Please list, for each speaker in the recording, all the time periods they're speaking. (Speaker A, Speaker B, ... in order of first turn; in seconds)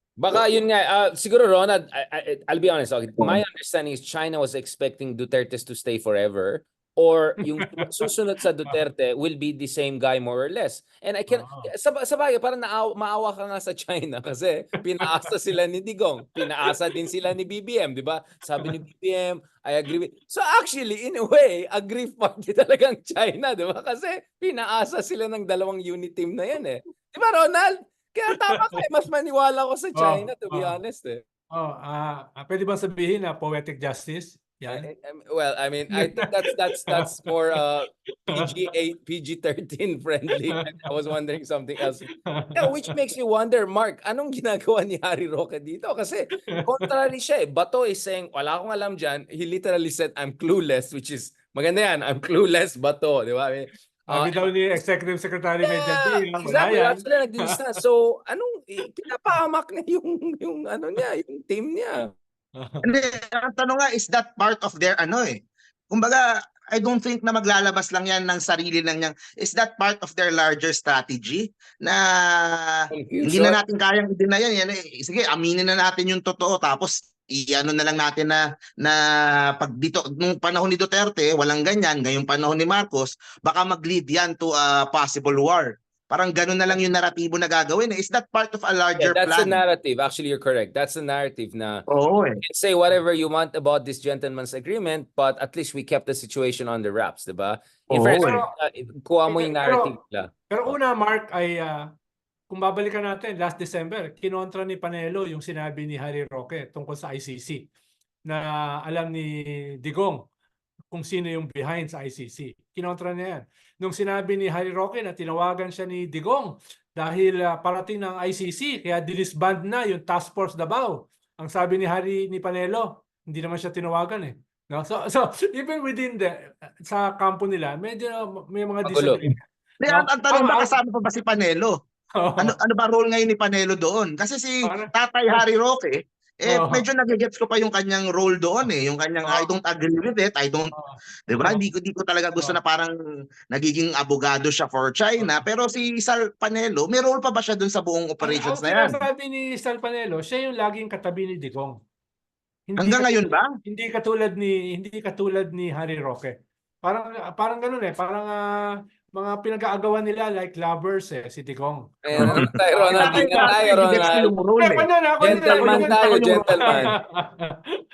Speaker A: 0.2-31.2, 34.7-54.5, 55.6-62.1, 72.9-73.6, 89.0-91.8, 92.4-100.8, 128.8-129.2, 162.0-164.3, 165.2-166.9
Speaker B: 11.3-11.7, 30.0-30.8, 31.5-34.9, 35.9-36.3, 42.3-42.7, 54.1-57.0, 62.6-62.9, 98.1-98.5, 99.3-99.9, 100.5-101.8, 102.5-107.7, 108.3-110.3, 110.9-126.3, 126.9-130.8, 132.2-132.5, 134.7-135.4, 136.5-136.8, 139.2-139.5, 140.7-141.6, 145.2-145.5, 148.2-151.8, 152.7-156.3, 156.8-158.4, 159.2-164.0, 164.6-167.6
Speaker C: 62.9-79.0, 79.5-89.6, 91.9-92.4, 97.9-98.4, 129.8-131.8, 132.4-140.7, 141.3-142.9, 143.5-149.0, 152.8-153.5, 162.2-166.9